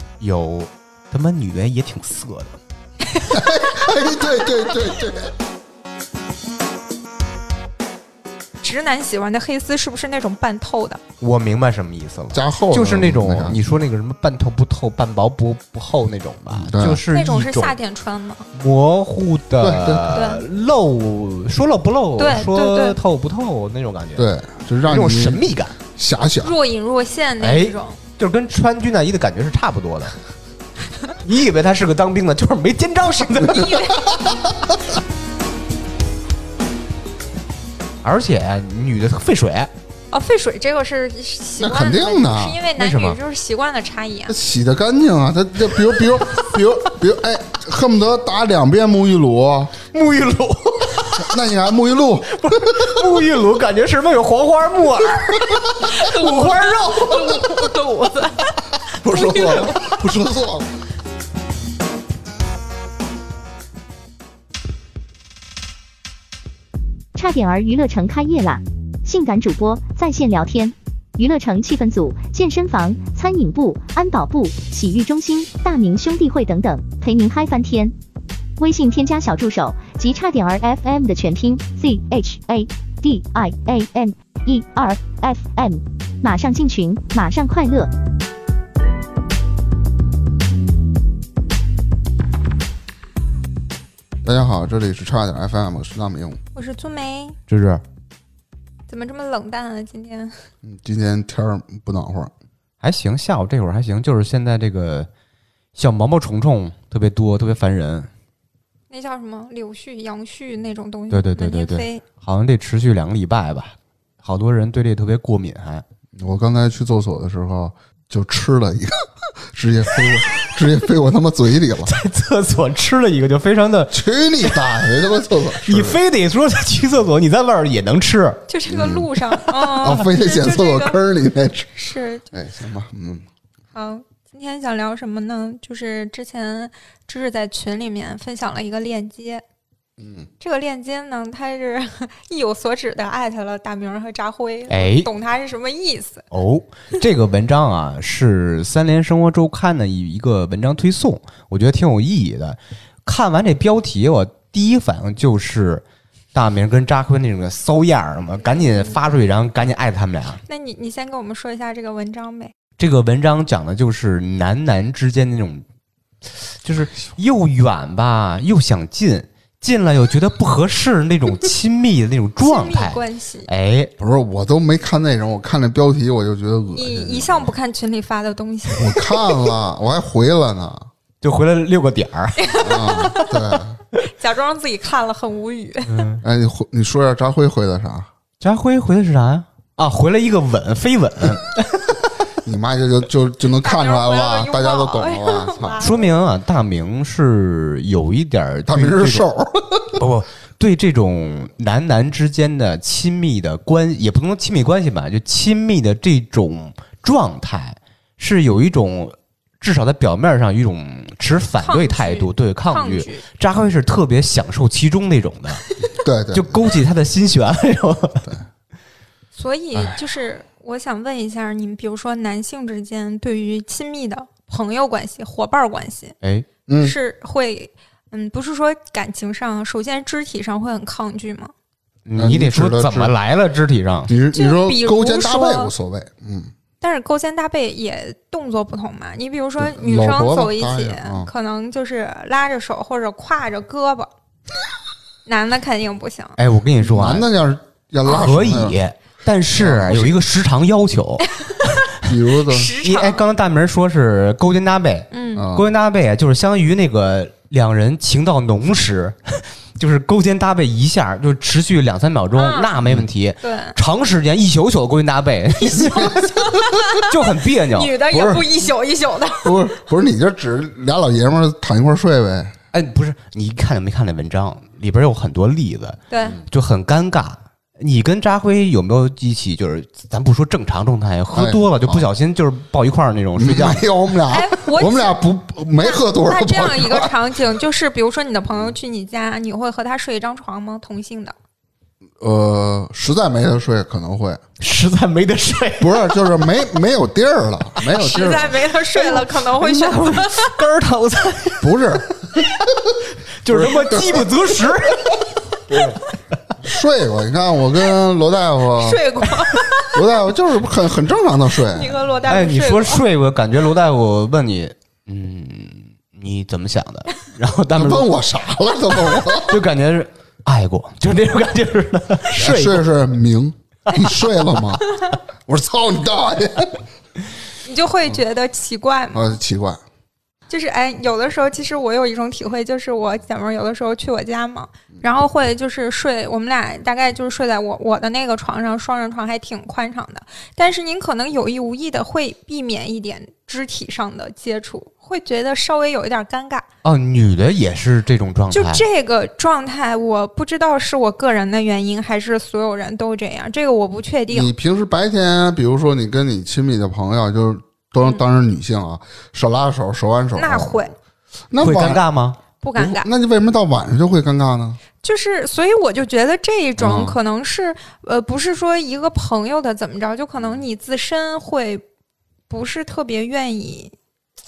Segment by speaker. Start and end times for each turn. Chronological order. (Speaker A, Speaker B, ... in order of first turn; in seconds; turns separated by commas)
Speaker A: 0.2-2.6, Speaker B: 3.1-3.6, Speaker C: 3.3-5.3, Speaker B: 8.6-11.0, Speaker A: 11.2-17.8, Speaker C: 12.3-13.6, Speaker C: 16.5-17.0, Speaker B: 17.1-18.5, Speaker A: 18.5-24.3, Speaker C: 19.6-20.1, Speaker B: 20.1-20.4, Speaker B: 22.2-23.0, Speaker C: 24.2-26.5, Speaker A: 24.8-25.8, Speaker B: 26.4-28.0, Speaker A: 27.4-30.2, Speaker A: 31.2-34.0, Speaker B: 33.4-34.1, Speaker A: 38.0-39.7, Speaker B: 40.1-44.4, Speaker C: 41.6-42.6, Speaker A: 42.8-43.2, Speaker C: 44.3-49.8, Speaker A: 49.9-51.3, Speaker C: 51.2-53.0, Speaker A: 52.3-57.4, Speaker B: 55.8-59.8, Speaker C: 59.0-60.7, Speaker D: 67.2-78.0, Speaker D: 78.6-87.9, Speaker C: 94.2-96.4, Speaker B: 96.5-97.4, Speaker A: 97.5-97.8, Speaker B: 98.9-100.4, Speaker C: 100.6-102.3, Speaker A: 102.8-105.1, Speaker A: 105.8-108.1, Speaker B: 108.9-112.0, Speaker A: 111.1-115.8, Speaker C: 116.2-121.9, Speaker A: 121.8-125.0, Speaker C: 123.9-126.0, Speaker A: 125.7-128.4, Speaker B: 128.5-131.0, Speaker C: 128.7-129.1, Speaker C: 129.8-131.7, Speaker B: 131.7-132.3, Speaker C: 132.3-133.2, Speaker B: 133.7-139.4, Speaker C: 140.0-140.3, Speaker B: 140.4-146.2, Speaker A: 144.7-145.1, Speaker A: 146.3-160.4, Speaker B: 160.5-162.5, Speaker A: 162.8-165.7, Speaker A: 166.5-173.9, Speaker B: 172.4-173.5, Speaker C: 174.0-177.5, Speaker B: 176.7-179.3, Speaker C: 178.8-180.9, Speaker A: 181.2-182.5, Speaker B: 182.4-183.6, Speaker C: 182.6-183.8, Speaker B: 184.2-186.1, Speaker A: 185.9-186.2, Speaker C: 186.2-188.1, Speaker A: 188.4-192.0, Speaker C: 192.4-195.9, Speaker B: 193.6-196.1, Speaker A: 195.8-199.3, Speaker C: 198.7-200.0, Speaker A: 199.9-215.6, Speaker B: 211.6-213.2, Speaker C: 216.0-216.6, Speaker A: 216.3-218.3, Speaker B: 219.3-226.2, Speaker A: 226.2-226.5, Speaker C: 226.7-226.9, Speaker B: 226.8-231.5, Speaker A: 232.1-234.1, Speaker C: 232.2-233.2, Speaker C: 234.1-236.5, Speaker B: 234.3-235.7, Speaker B: 236.8-244.1, Speaker C: 239.6-241.3, Speaker B: 245.3-246.4, Speaker A: 246.4-247.3, Speaker C: 246.8-248.8, Speaker A: 248.1-251.3, Speaker C: 249.6-250.2, Speaker B: 251.4-251.7, Speaker C: 252.0-252.7, Speaker B: 252.5-253.2, Speaker A: 252.8-268.1, Speaker B: 255.1-255.4, Speaker C: 255.3-255.7, Speaker B: 262.4-262.7, Speaker B: 263.4-263.8, Speaker C: 265.7-266.6, Speaker B: 266.5-267.1, Speaker B: 267.7-269.6, Speaker C: 268.1-268.5, Speaker C: 269.4-272.6, Speaker A: 272.7-283.9, Speaker B: 276.1-276.4, Speaker C: 281.3-282.1, Speaker C: 283.4-287.1, Speaker B: 284.3-285.1, Speaker B: 285.8-291.3, Speaker C: 292.2-294.4, Speaker A: 294.6-296.1, Speaker C: 295.8-298.6, Speaker B: 297.9-300.6, Speaker A: 299.6-302.7, Speaker C: 301.6-302.9, Speaker A: 303.4-306.0, Speaker C: 303.5-306.0, Speaker C: 306.6-309.1, Speaker B: 308.8-310.0, Speaker C: 309.9-312.0, Speaker B: 311.6-313.0, Speaker A: 312.2-318.1, Speaker C: 317.8-319.6, Speaker A: 319.0-322.9, Speaker C: 322.3-324.8, Speaker C: 325.5-326.8, Speaker B: 327.6-329.4, Speaker C: 329.1-329.8, Speaker B: 330.5-346.6, Speaker A: 346.8-348.9, Speaker B: 348.5-354.5, Speaker C: 354.3-360.9, Speaker B: 360.4-360.9, Speaker C: 361.5-362.0, Speaker A: 361.6-362.4, Speaker B: 362.6-363.1, Speaker C: 362.8-364.8, Speaker B: 365.0-371.8, Speaker C: 366.8-367.1, Speaker B: 372.5-373.9